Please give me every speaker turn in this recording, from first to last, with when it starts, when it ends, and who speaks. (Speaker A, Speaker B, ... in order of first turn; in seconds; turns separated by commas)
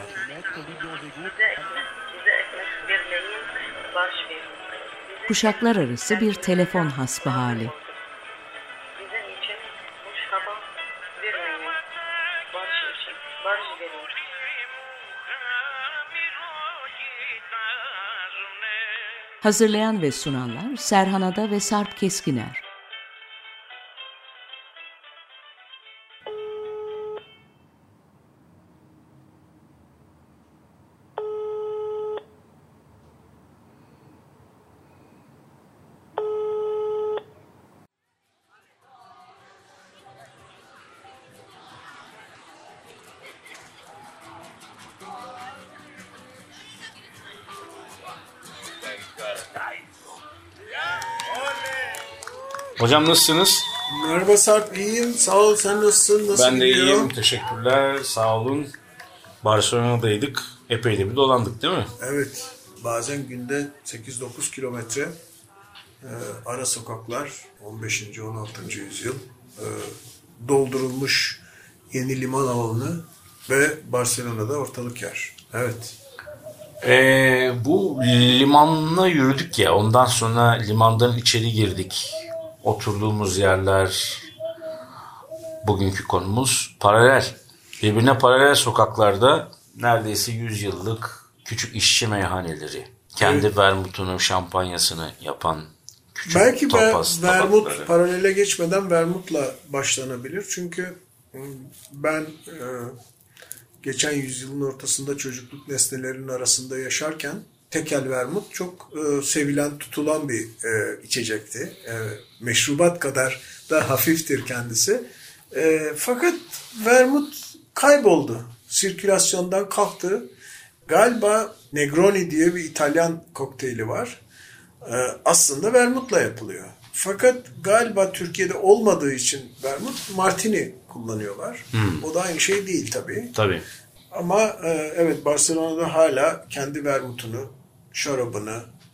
Speaker A: 5.2-7.8, Speaker A: 19.4-22.6, Speaker B: 52.8-53.7, Speaker C: 53.9-57.1, Speaker B: 56.3-58.7, Speaker B: 59.4-61.9, Speaker C: 62.0-65.2, Speaker C: 66.0-76.0, Speaker B: 76.8-82.1, Speaker B: 82.6-84.3, Speaker B: 85.6-97.9, Speaker C: 93.2-93.5, Speaker C: 96.3-103.0, Speaker C: 103.8-120.3, Speaker C: 120.9-124.2, Speaker C: 124.8-133.3, Speaker B: 131.7-132.0, Speaker B: 133.3-133.7, Speaker C: 134.1-138.7